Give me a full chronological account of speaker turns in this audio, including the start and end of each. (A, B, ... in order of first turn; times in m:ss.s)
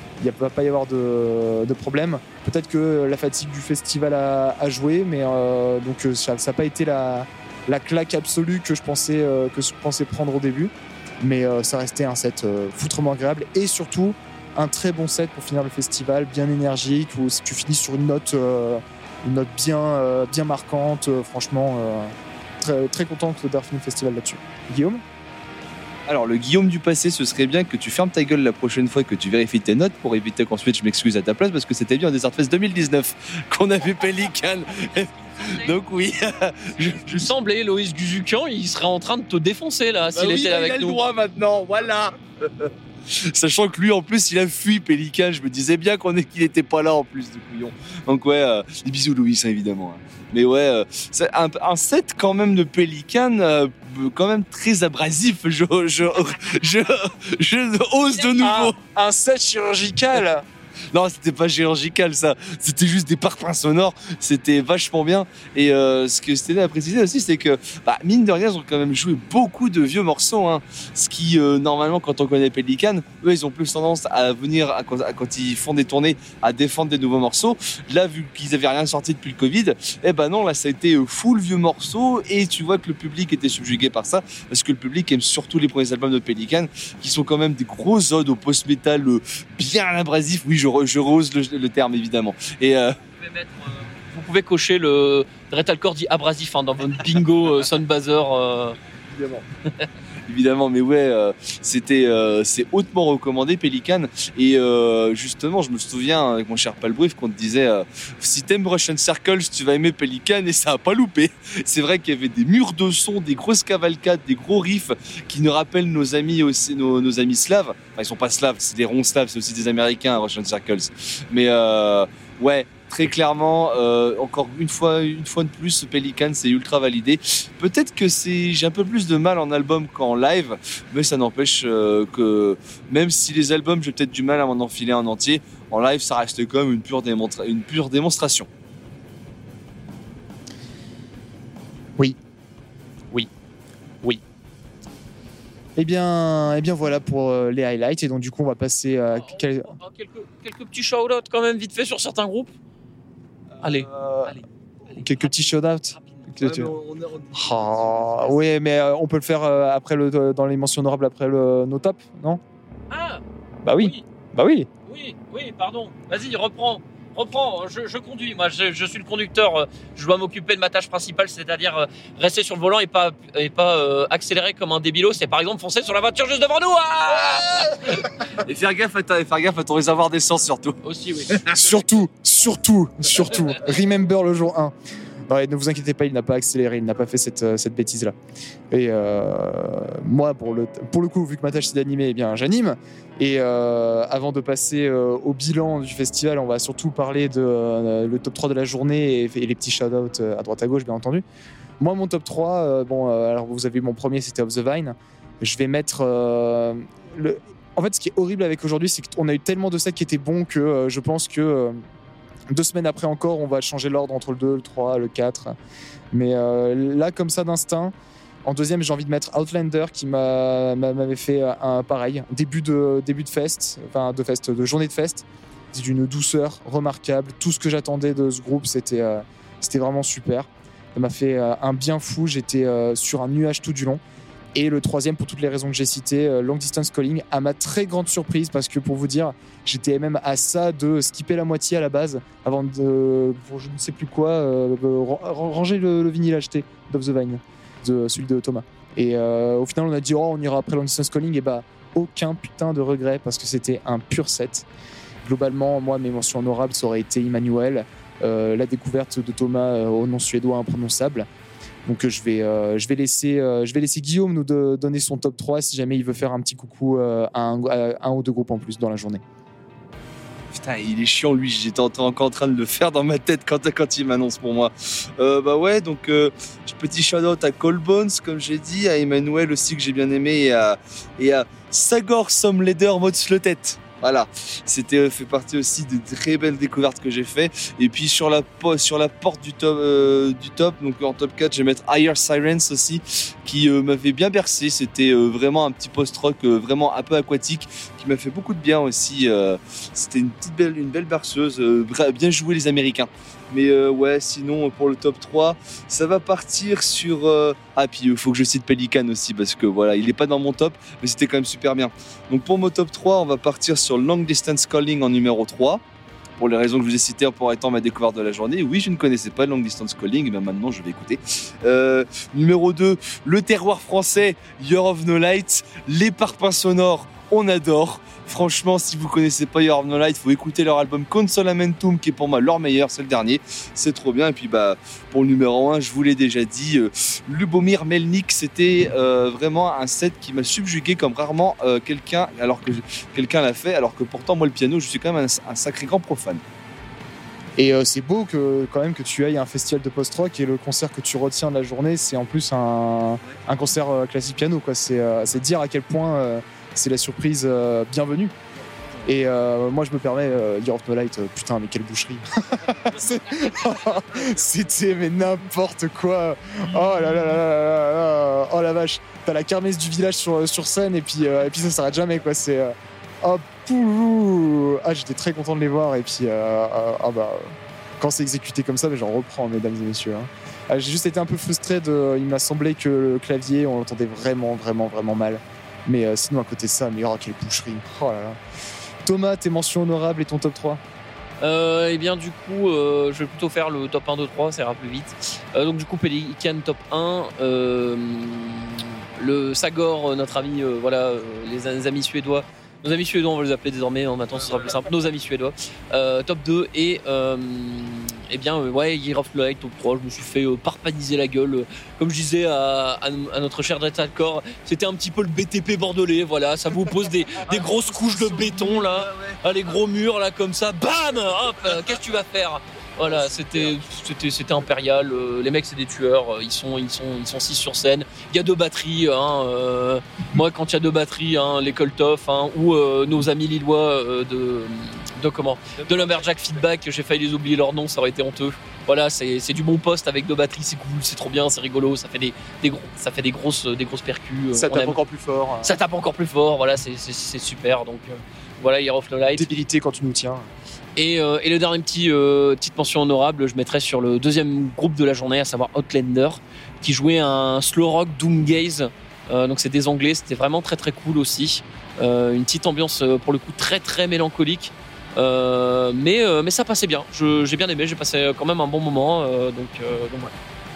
0:00.2-0:25.0 A
0:26.1-0:37.3 B
0:35.4-0:35.7 C
0:36.8-0:41.0 C
0:40.1-0:58.8 B
0:58.4-1:00.4 A
1:00.9-1:33.0 B
1:33.2-1:38.8 C
1:39.1-1:39.4 B
1:40.3-2:18.5 B
2:25.8-2:29.7 A
2:29.1-2:32.5 C
2:33.5-2:34.3 B
2:33.6-2:36.3 C
2:35.0-2:36.7 A
2:36.4-2:38.3 B
2:37.3-2:42.4 A
2:42.9-2:43.2 C
2:43.6-2:44.7 A
2:43.8-2:44.0 C
2:44.8-2:58.1 C
2:57.1-3:01.6 B
3:00.8-3:01.5 C
3:01.5-3:04.7 A
3:05.3-3:08.1 A
3:08.7-3:21.2 A
3:21.8-3:31.8 A
3:32.5-3:35.5 A
3:36.1-3:37.9 A
3:38.4-3:54.0 A
3:54.5-4:14.7 A
4:15.2-4:21.3 A
4:21.8-4:29.2 A
4:30.5-5:15.8 B
5:16.4-5:46.4 B
5:47.6-5:58.3 A
5:59.0-6:28.4 A
6:29.0-6:30.8 A
6:31.4-7:25.0 C
6:57.5-6:59.4 B
7:15.8-7:16.6 B
7:24.5-7:25.7 A
7:25.6-7:29.5 C
7:29.4-7:30.5 A
7:31.0-7:50.3 C